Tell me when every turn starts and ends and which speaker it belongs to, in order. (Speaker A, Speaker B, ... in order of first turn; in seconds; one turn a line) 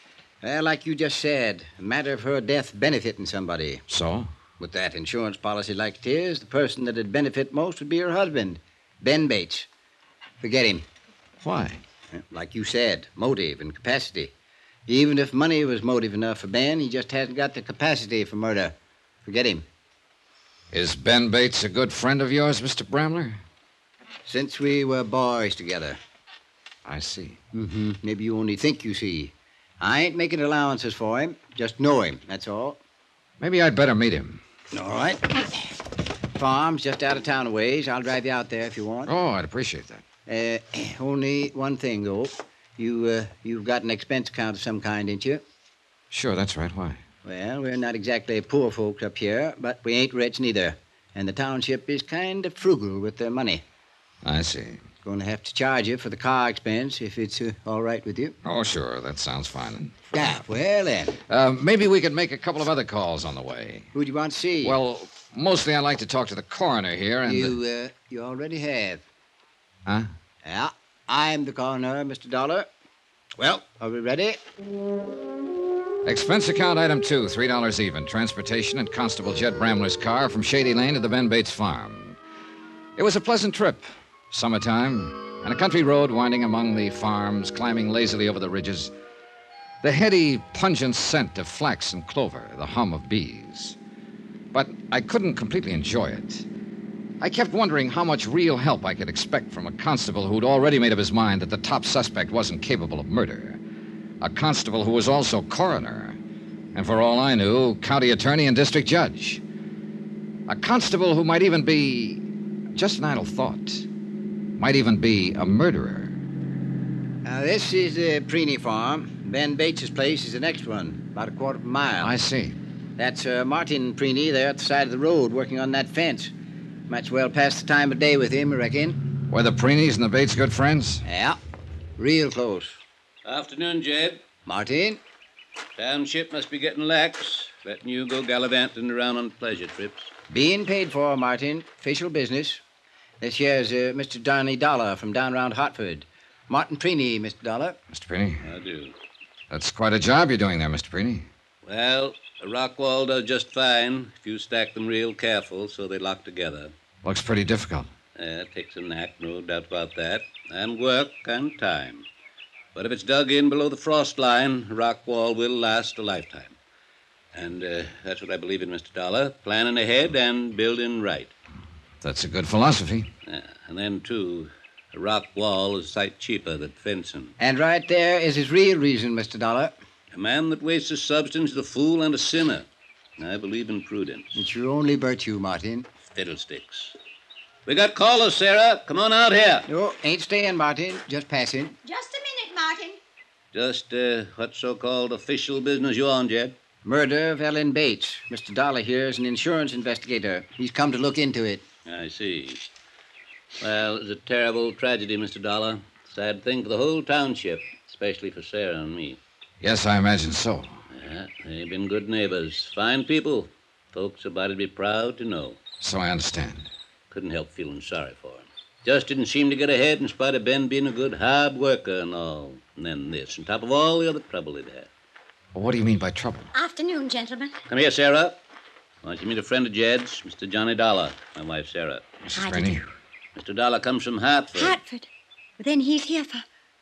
Speaker A: 0.4-3.8
Speaker B: 3.9-4.3
Speaker A: 4.6-9.7
Speaker A: 10.4-10.8
Speaker B: 11.4-11.8
Speaker A: 12.1-14.3
Speaker A: 14.9-19.6
Speaker B: 20.7-23.4
Speaker A: 24.2-26.0
Speaker B: 26.9-27.4
Speaker A: 27.5-32.8
Speaker B: 33.4-34.4
Speaker A: 34.7-35.6
Speaker A: 36.3-39.1
Speaker B: 39.1-40.0
Speaker A: 40.2-45.4
Speaker B: 46.1-47.0
Speaker A: 47.2-53.6
Speaker B: 54.2-54.8
Speaker A: 55.0-58.3
Speaker B: 58.4-60.3
Speaker A: 60.1-61.2
Speaker B: 61.3-63.9
Speaker A: 63.9-64.8
Speaker B: 64.6-67.6
Speaker A: 67.2-69.0
Speaker A: 70.4-72.7
Speaker A: 73.4-74.4
Speaker B: 76.0-82.2
Speaker B: 83.0-88.9
Speaker B: 89.8-93.8
Speaker B: 94.5-96.5
Speaker B: 97.2-103.6
Speaker B: 104.2-106.2
Speaker B: 106.7-109.4
Speaker B: 110.5-112.2
Speaker B: 112.8-113.9
Speaker B: 114.6-116.2
Speaker A: 117.2-122.1
Speaker B: 122.0-122.5
Speaker A: 123.0-126.3
Speaker A: 126.9-129.0
Speaker B: 129.3-131.0
Speaker A: 131.0-131.4
Speaker A: 132.0-132.8
Speaker C: 133.2-134.2
Speaker A: 134.4-135.0
Speaker C: 135.8-140.1
Speaker A: 140.3-142.6
Speaker A: 143.2-147.8
Speaker B: 147.9-148.4
Speaker C: 148.4-148.9
Speaker B: 149.5-151.3
Speaker C: 151.6-156.7
Speaker B: 157.0-157.9
Speaker C: 158.1-162.1
Speaker C: 162.7-166.6
Speaker C: 167.3-171.3
Speaker B: 172.0-173.1
Speaker C: 173.2-177.3
Speaker A: 177.4-179.7
Speaker C: 180.1-184.3
Speaker A: 184.3-185.9
Speaker C: 186.1-187.0
Speaker C: 187.7-189.7
Speaker A: 189.7-191.8
Speaker D: 191.8-193.0
Speaker C: 193.5-196.6
Speaker A: 196.8-201.6
Speaker C: 201.8-202.7
Speaker C: 203.6-209.2
Speaker B: 209.6-210.8
Speaker C: 210.9-215.6
Speaker B: 215.8-216.7
Speaker C: 217.1-224.9
Speaker B: 225.5-226.5
Speaker D: 226.5-227.6
Speaker C: 227.7-228.4
Speaker C: 229.0-232.1
Speaker B: 232.2-232.8
Speaker D: 232.3-232.8
Speaker C: 233.3-234.8
Speaker D: 234.6-235.1
Speaker D: 235.6-236.4